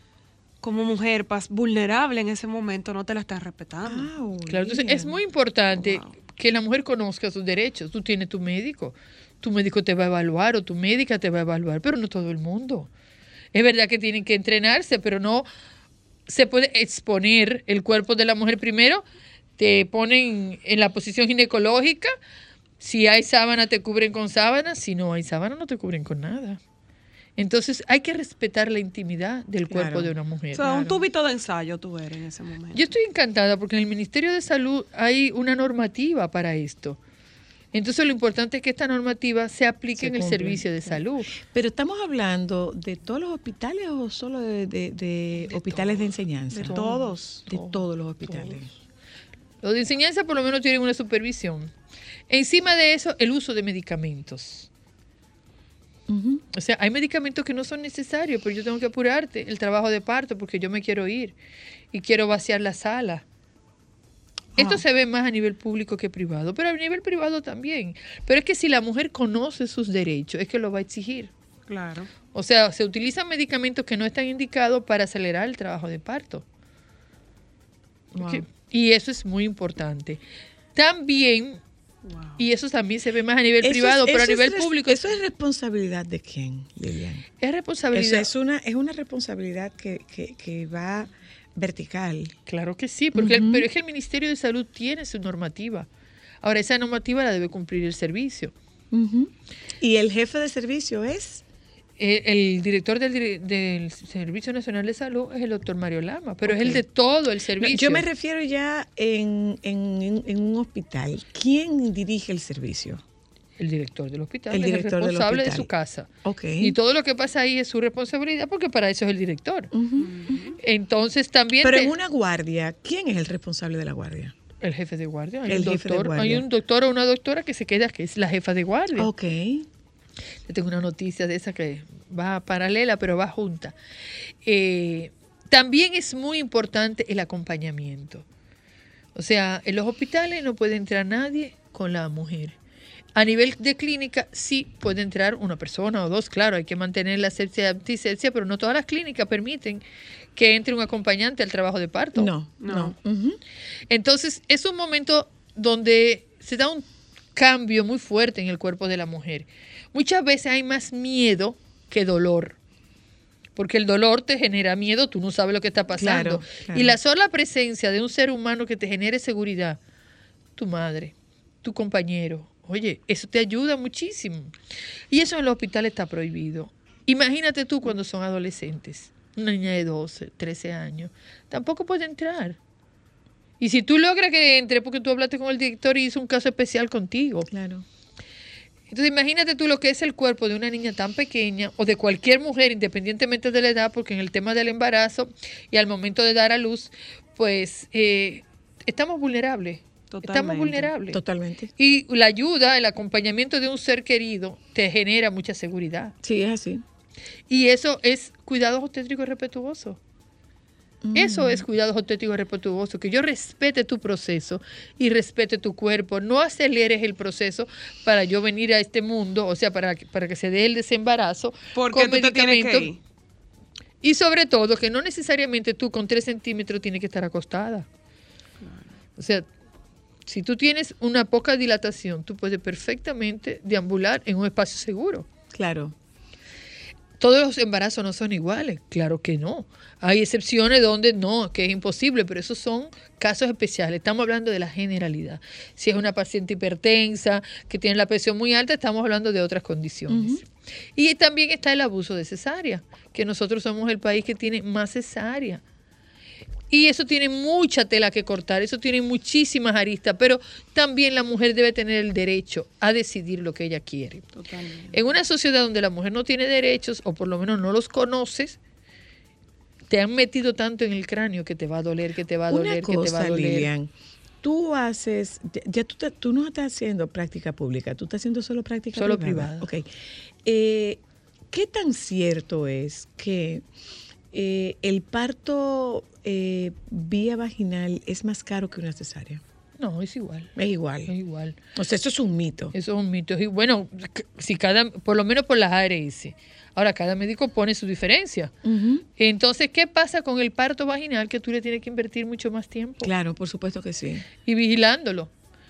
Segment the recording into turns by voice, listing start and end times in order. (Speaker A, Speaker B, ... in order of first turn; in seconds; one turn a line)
Speaker A: 0.6-4.1
Speaker B: 3.9-5.2
Speaker C: 4.5-12.9
Speaker A: 5.7-6.1
Speaker C: 13.5-15.5
Speaker C: 16.3-19.0
Speaker C: 19.6-22.1
Speaker C: 22.8-26.6
Speaker C: 27.4-30.9
Speaker B: 29.7-30.1
Speaker A: 30.5-32.9
Speaker C: 32.8-37.0
Speaker C: 37.7-41.3
Speaker B: 40.0-48.7
Speaker A: 46.5-47.7
Speaker C: 48.2-48.6
Speaker C: 49.6-51.7
Speaker C: 52.3-54.7
Speaker B: 56.1-56.4
Speaker C: 56.5-61.4
Speaker C: 61.9-63.2
Speaker C: 64.6-71.3
Speaker B: 64.6-64.8
Speaker A: 71.7-72.1
Speaker C: 72.3-76.4
Speaker B: 78.1-78.5
Speaker C: 78.2-80.2
Speaker C: 80.8-81.6
Speaker A: 82.0-82.4
Speaker C: 82.4-85.1
Speaker B: 83.6-87.3
Speaker C: 87.4-88.3
Speaker B: 87.9-92.3
Speaker C: 92.5-95.9
Speaker B: 93.1-93.7
Speaker C: 96.4-98.5
Speaker B: 98.9-101.4
Speaker C: 102.0-108.0
Speaker B: 106.4-106.8
Speaker B: 107.6-113.0
Speaker C: 113.6-119.7
Speaker B: 114.5-115.7
Speaker B: 116.2-116.8
Speaker B: 119.7-120.1
Speaker A: 120.0-120.6
Speaker C: 120.6-122.0
Speaker B: 121.6-124.3
Speaker C: 124.6-129.1
Speaker B: 125.5-126.5
Speaker B: 129.0-129.7
Speaker C: 130.5-133.8
Speaker C: 134.4-138.2
Speaker C: 139.2-142.6
Speaker C: 143.2-149.8
Speaker C: 150.4-152.3
Speaker B: 152.2-153.4
Speaker A: 152.6-152.9
Speaker C: 153.9-162.6
Speaker C: 163.6-169.8
Speaker B: 166.0-167.0
Speaker C: 170.6-174.6
Speaker C: 175.1-182.6
Speaker C: 183.6-187.5
Speaker B: 187.5-187.9
Speaker C: 188.9-201.2
Speaker A: 200.1-200.9
Speaker B: 201.1-201.7
Speaker C: 201.8-206.1
Speaker B: 206.2-206.8
Speaker C: 207.5-210.0
Speaker B: 211.0-211.7
Speaker C: 211.2-222.9
Speaker A: 221.8-223.0
Speaker C: 224.0-227.9
Speaker A: 228.6-228.9
Speaker C: 229.2-229.5
Speaker C: 230.3-235.3
Speaker B: 235.5-235.9
Speaker C: 237.2-255.6
Speaker B: 250.1-250.4
Speaker C: 256.7-264.3
Speaker A: 264.4-265.0
Speaker C: 264.9-268.6
Speaker C: 269.9-273.7
Speaker B: 272.5-273.9
Speaker B: 274.4-279.9
Speaker C: 278.9-279.7
Speaker B: 280.4-283.6
Speaker B: 284.3-289.4
Speaker C: 289.8-290.5
Speaker B: 290.6-291.1
Speaker C: 291.1-291.6
Speaker B: 291.8-292.8
Speaker C: 292.7-298.5
Speaker B: 298.6-299.1
Speaker C: 299.2-303.1
Speaker B: 303.0-304.3
Speaker C: 304.4-305.3